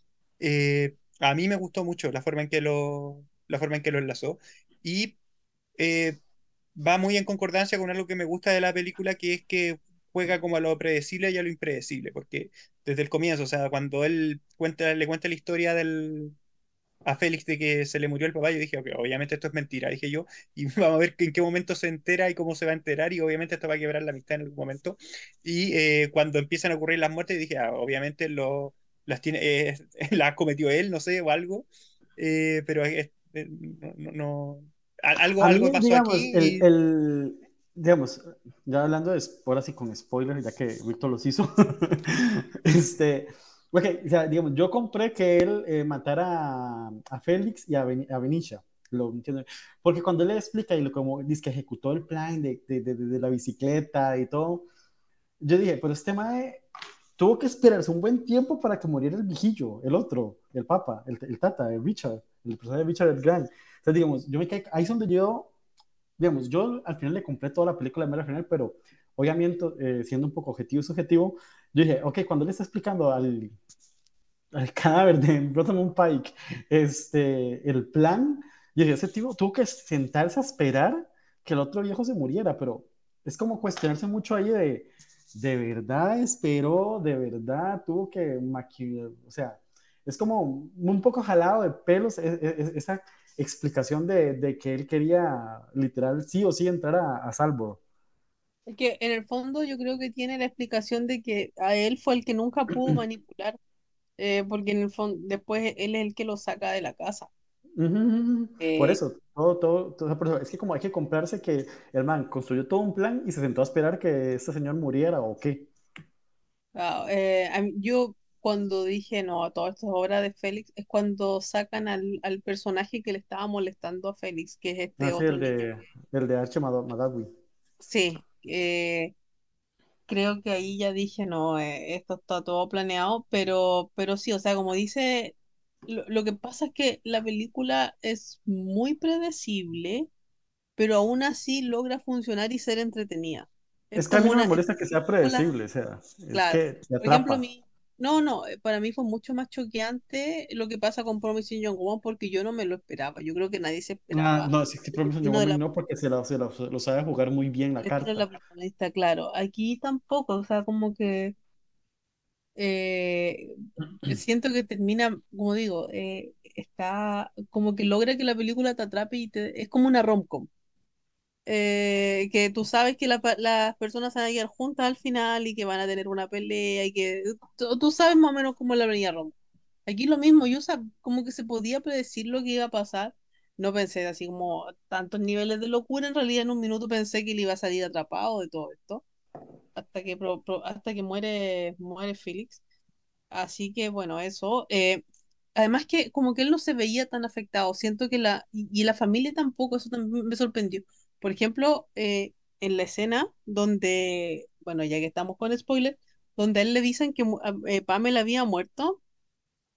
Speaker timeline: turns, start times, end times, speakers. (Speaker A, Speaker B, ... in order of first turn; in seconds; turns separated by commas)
Speaker A: 0.4-5.2, Speaker A: 5.8-6.2, Speaker A: 6.8-16.4, Speaker A: 17.0-31.6, Speaker A: 32.2-36.6, Speaker B: 35.4-54.6, Speaker B: 55.4-56.6, Speaker B: 57.2-65.5, Speaker B: 66.2-73.5, Speaker B: 74.5-97.8, Speaker C: 98.7-103.6, Speaker C: 104.2-107.3, Speaker B: 107.8-115.7, Speaker C: 108.6-109.0, Speaker C: 116.7-125.7, Speaker B: 125.0-127.3, Speaker C: 127.8-129.1, Speaker C: 130.1-135.3, Speaker C: 135.9-140.1, Speaker C: 140.8-144.6, Speaker B: 143.9-147.4, Speaker C: 146.3-154.5, Speaker B: 154.1-158.3, Speaker C: 155.0-155.6, Speaker C: 157.8-161.3, Speaker C: 162.6-170.5, Speaker C: 171.4-179.3, Speaker C: 179.8-189.0, Speaker C: 189.8-192.6, Speaker C: 193.3-195.0, Speaker C: 195.6-209.0